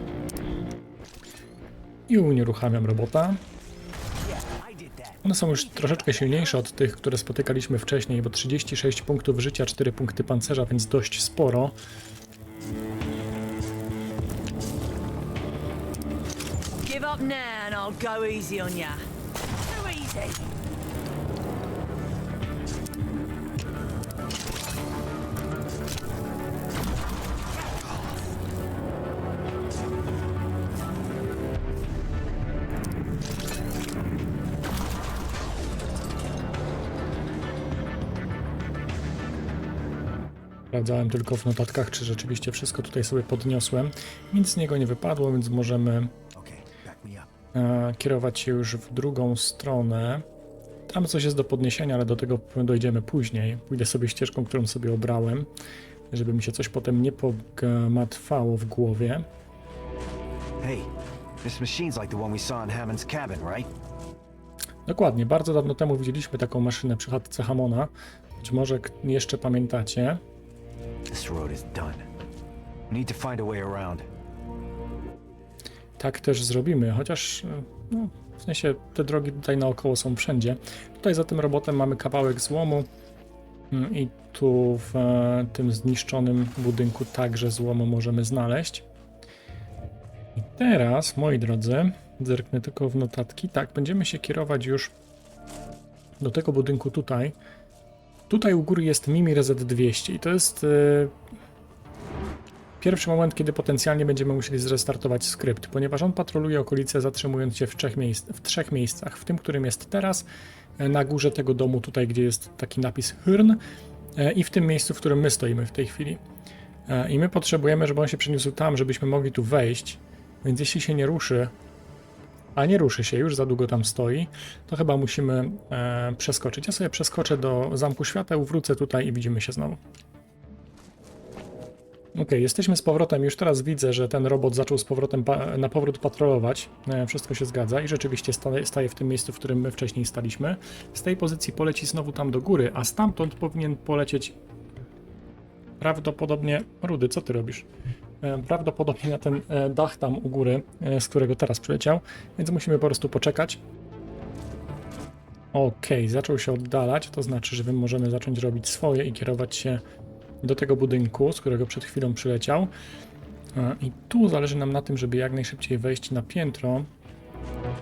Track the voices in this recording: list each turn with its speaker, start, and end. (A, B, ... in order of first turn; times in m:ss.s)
0:02.1-0:03.4 A
0:04.2-0:06.4 B
0:05.2-0:11.8 A
0:16.8-0:19.0 C
0:19.6-0:20.4 C
0:40.7-0:46.1 A
0:46.4-0:47.3 B
0:47.5-0:50.2 A
0:50.9-0:55.5 A
0:56.1-0:59.3 A
1:00.6-1:00.9 B
1:01.4-1:03.7 B
1:04.9-1:10.2 A
1:11.1-1:12.1 B
1:12.9-1:14.1 B
1:16.0-1:22.9 A
1:23.7-1:28.8 A
1:30.4-1:34.9 A
1:36.2-1:37.4 A
1:38.3-1:41.1 A
1:42.8-1:50.3 A
1:50.8-1:53.6 A
1:54.2-1:56.2 A
1:56.9-2:01.5 A
2:02.6-2:09.8 A
2:12.2-2:24.4 A
2:25.8-2:27.7 A
2:28.2-2:33.6 A
2:35.5-2:39.8 A
2:40.4-2:42.7 A
2:43.6-2:46.9 A